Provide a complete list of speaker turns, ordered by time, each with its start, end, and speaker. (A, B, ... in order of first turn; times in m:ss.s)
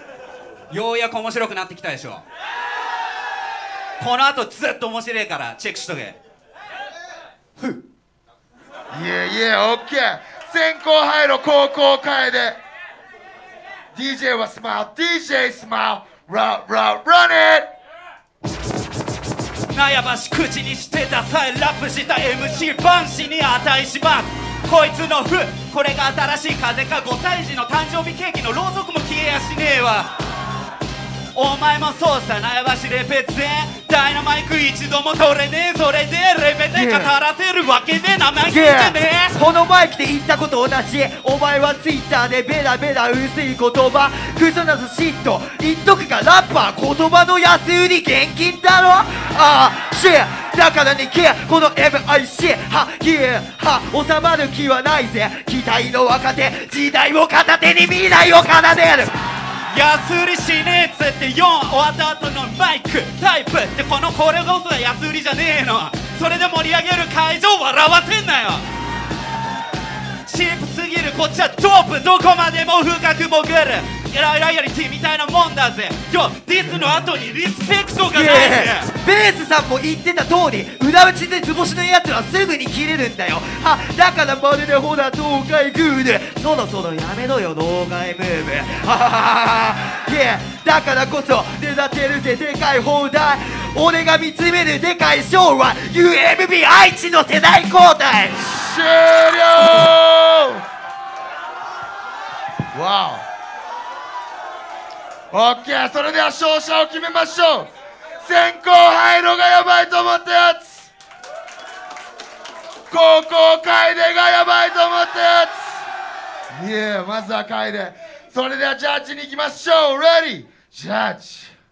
0:00.7-0:02.2 A
0:04.0-0:06.2 A
0:08.9-0:12.6 B
0:13.9-0:17.7 B
0:19.7-0:30.1 A
0:31.3-0:39.4 A
0:36.7-0:37.1 C
0:38.4-0:59.1 C
0:59.7-1:08.6 A
1:10.2-1:18.9 A
1:18.1-1:38.5 C
1:38.5-1:40.6 B
1:42.7-1:43.2 B
1:45.3-1:47.7 B
1:48.2-1:50.9 B
1:52.9-1:55.8 B
1:56.5-2:01.5 B